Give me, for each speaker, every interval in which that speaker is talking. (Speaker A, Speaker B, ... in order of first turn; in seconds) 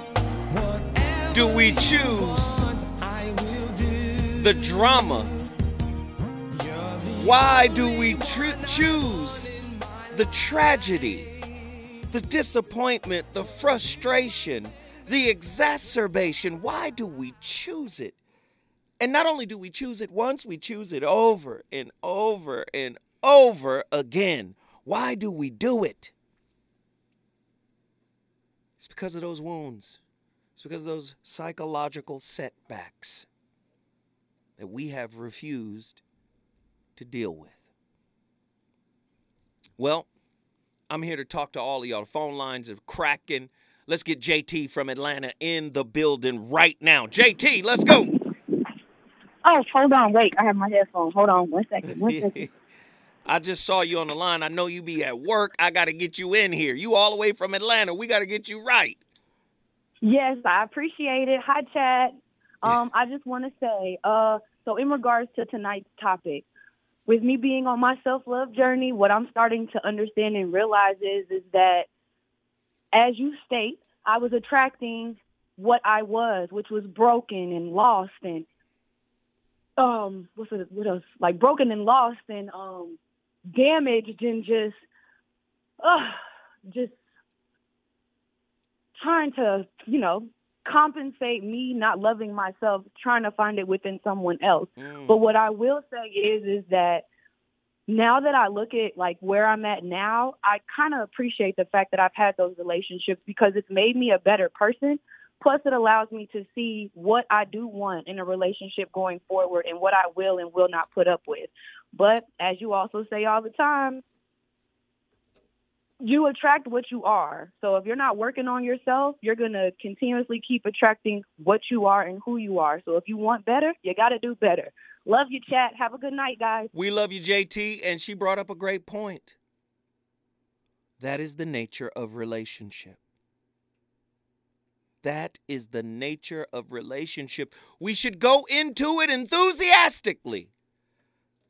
Speaker A: 0.5-5.3, 6.5-10.5
Speaker B: 1.3-2.7, 4.4-5.3, 7.2-9.5, 10.1-11.3, 12.1-18.2, 19.0-26.1, 28.8-30.0, 30.6-33.3, 34.6-36.0, 37.0-37.6, 39.8-40.1, 40.9-48.1, 51.9-52.5, 53.2-59.0, 94.8-95.2, 126.7-129.3, 131.0-133.0, 135.0-140.5
Speaker C: 49.4-52.5, 60.0-66.5, 67.0-71.9, 72.9-78.5, 79.8-83.0, 83.5-84.8, 85.8-86.9, 89.0-97.0, 97.9-114.0, 116.0-126.7